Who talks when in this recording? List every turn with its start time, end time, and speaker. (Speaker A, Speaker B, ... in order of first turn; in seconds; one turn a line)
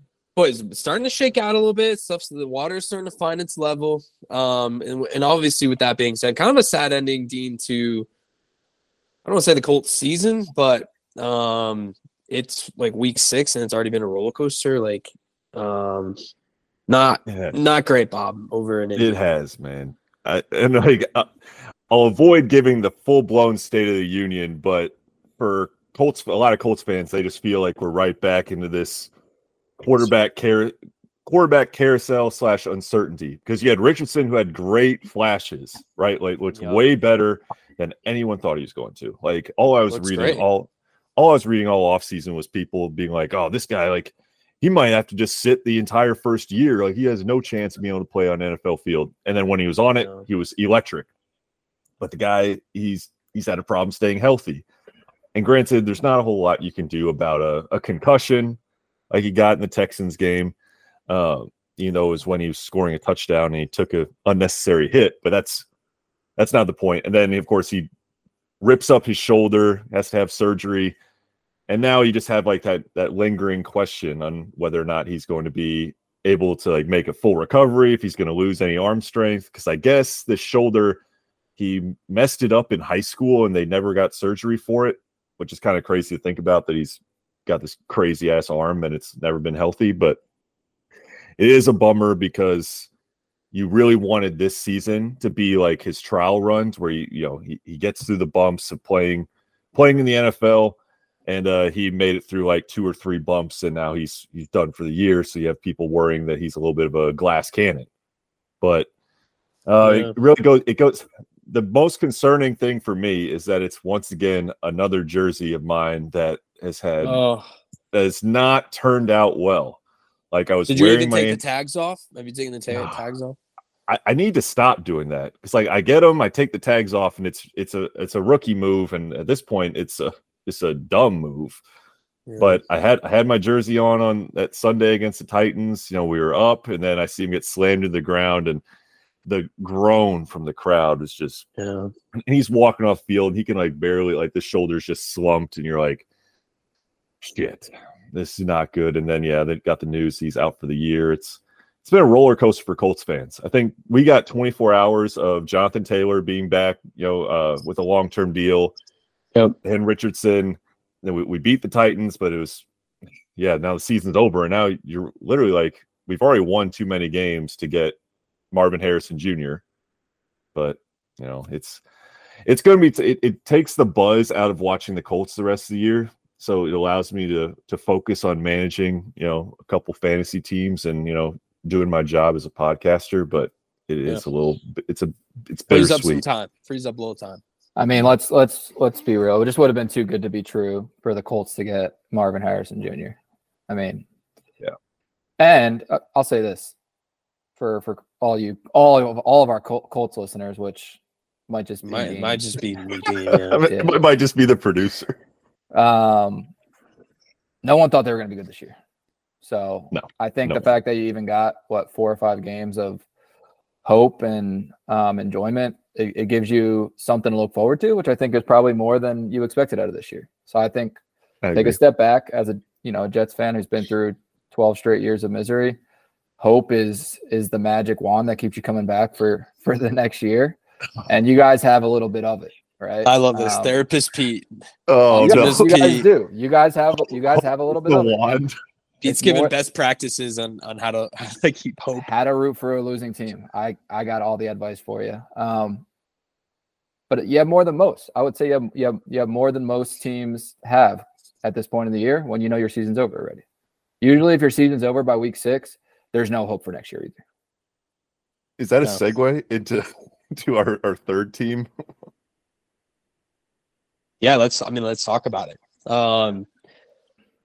Speaker A: 0.3-8.1
Speaker A: 9.2-16.2
Speaker A: 16.9-19.1
Speaker B: 17.3-17.5
Speaker B: 18.9-21.3
Speaker B: 21.9-29.1
Speaker B: 29.8-30.7
Speaker B: 31.2-51.1
Speaker A: 36.5-36.8
Speaker A: 39.9-40.4
Speaker A: 50.0-50.2
Speaker B: 52.0-54.6
Speaker B: 55.3-58.6
Speaker B: 59.1-60.5
Speaker B: 61.1-65.7
Speaker B: 66.4-67.9
Speaker B: 68.6-70.9
Speaker B: 71.7-81.0
Speaker B: 81.6-90.2
Speaker B: 91.4-92.9
Speaker B: 93.5-107.9
Speaker B: 108.6-108.9
Speaker B: 109.7-117.2
Speaker A: 109.8-110.1
Speaker A: 117.0-117.5
Speaker B: 117.9-119.8
Speaker B: 120.3-121.4
Speaker A: 120.7-123.4
Speaker B: 122.7-123.0
Speaker B: 123.9-131.6
Speaker A: 132.3-132.6
Speaker B: 132.4-138.6
Speaker B: 139.2-141.4
Speaker A: 141.6-141.9
Speaker B: 142.2-146.0
Speaker B: 147.2-158.8
Speaker B: 159.6-162.6
Speaker B: 163.3-167.9
Speaker B: 168.5-169.6
Speaker B: 170.5-171.8
Speaker B: 172.4-186.2
Speaker A: 185.7-187.4
Speaker C: 187.8-193.2
Speaker C: 193.7-194.0
Speaker C: 195.4-196.7
Speaker C: 197.6-202.4
Speaker A: 201.8-203.6
Speaker B: 203.3-205.2
Speaker C: 203.7-204.0
Speaker C: 205.7-206.5
Speaker C: 207.6-208.8
Speaker C: 209.4-213.0
Speaker B: 209.9-210.6
Speaker C: 213.8-220.9
Speaker B: 221.4-221.8
Speaker C: 221.5-225.8
Speaker C: 226.4-233.8
Speaker A: 233.0-234.5
Speaker B: 234.9-235.7
Speaker A: 235.1-236.1
Speaker C: 235.1-238.4
Speaker B: 237.3-238.6
Speaker A: 239.0-242.1
Speaker C: 239.0-239.5
Speaker C: 242.0-245.8
Speaker C: 247.1-253.4
Speaker C: 254.0-257.2
Speaker B: 258.6-261.7
Speaker A: 264.2-266.5